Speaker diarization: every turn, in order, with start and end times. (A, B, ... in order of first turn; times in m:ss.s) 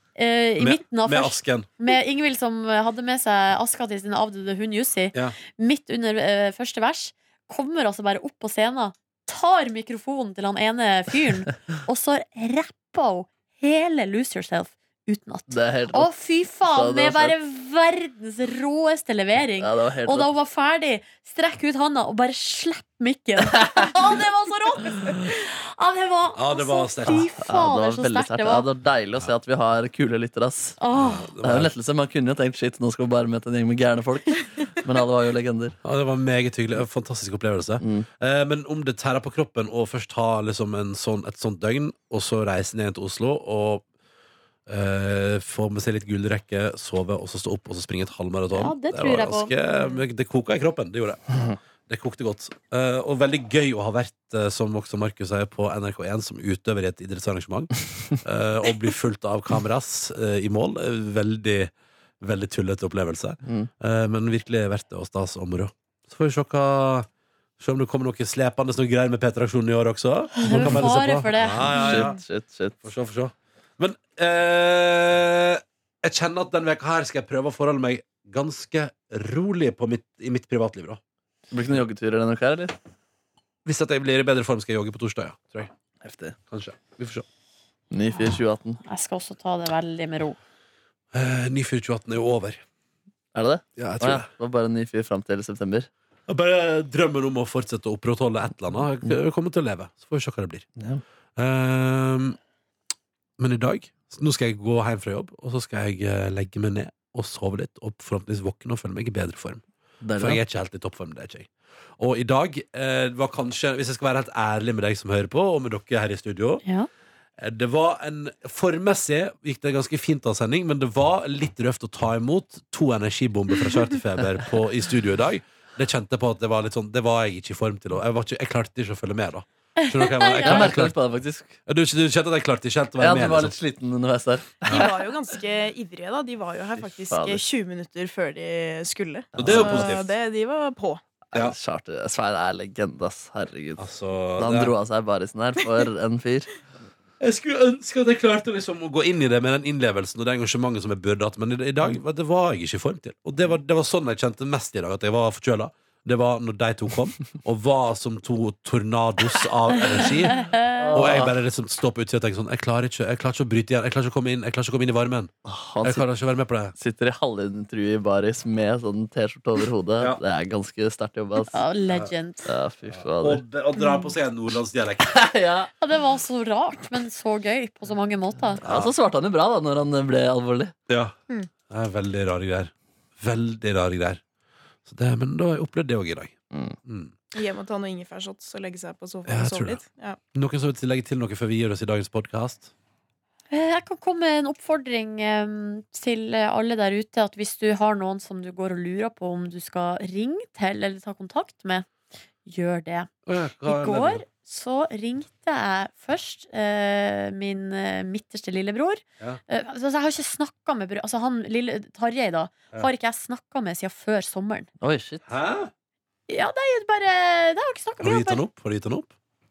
0:00.2-0:28.7 A
0:00.6-0:01.7 B
0:15.5-0:17.3 C
0:19.6-0:20.3 C
0:23.5-0:23.9 C
0:26.4-0:27.3 B
0:27.4-0:30.8 C
0:30.8-0:31.3 A
0:30.9-0:31.7 B
0:31.4-0:35.8 C
0:35.8-0:43.8 B
0:37.8-0:38.1 C
0:44.7-1:07.1 B
0:48.5-0:50.0 A
1:07.6-1:12.2 B
1:10.4-1:12.1 A
1:10.5-1:10.8 C
1:11.7-1:12.8 C
1:12.8-1:21.0 B
1:21.5-1:22.7 C
1:23.6-1:25.7 B
1:26.0-1:26.4 C
1:26.5-1:27.2 B
1:27.9-1:28.8 C
1:28.2-1:30.4 A
1:31.1-1:32.6 B
1:33.4-1:35.9 C
1:33.8-1:34.3 B
1:36.3-1:40.7 B
1:41.4-1:42.4 B
1:43.4-1:49.6 B
1:50.0-1:50.4 C
1:50.2-1:56.6 B
1:57.4-2:11.0 B
2:09.8-2:10.7 A
2:10.4-2:11.6 C
2:11.7-2:13.6 B
2:13.0-2:15.0 C
2:14.7-2:21.0 D
2:16.8-2:17.4 C
2:19.4-2:20.1 B
2:19.4-2:19.9 C
2:21.3-2:23.8 C
2:23.8-2:24.7 B
2:24.4-2:26.5 C
2:27.2-2:45.3 B
2:40.1-2:41.1 A
2:40.8-2:41.3 C
2:45.5-2:46.0 C
2:45.8-2:46.7 B
2:46.8-2:51.6 C
2:51.5-2:52.5 A
2:52.5-2:53.4 C
2:52.9-2:55.2 B
2:55.1-2:55.7 C
2:55.8-2:58.6 A
2:58.6-3:00.7 C
2:58.6-2:58.9 B
3:00.9-3:01.2 B
3:01.7-3:04.2 B
3:04.9-3:07.1 B
3:06.5-3:06.8 C
3:07.3-3:10.2 D
3:09.3-3:09.8 B
3:10.3-3:12.7 B
3:13.5-3:21.9 A
3:22.4-3:23.1 A
3:23.3-3:24.2 B
3:23.6-3:34.7 A
3:34.8-3:35.2 C
3:35.3-3:35.7 B
3:36.3-3:38.4 A
3:38.0-3:39.1 B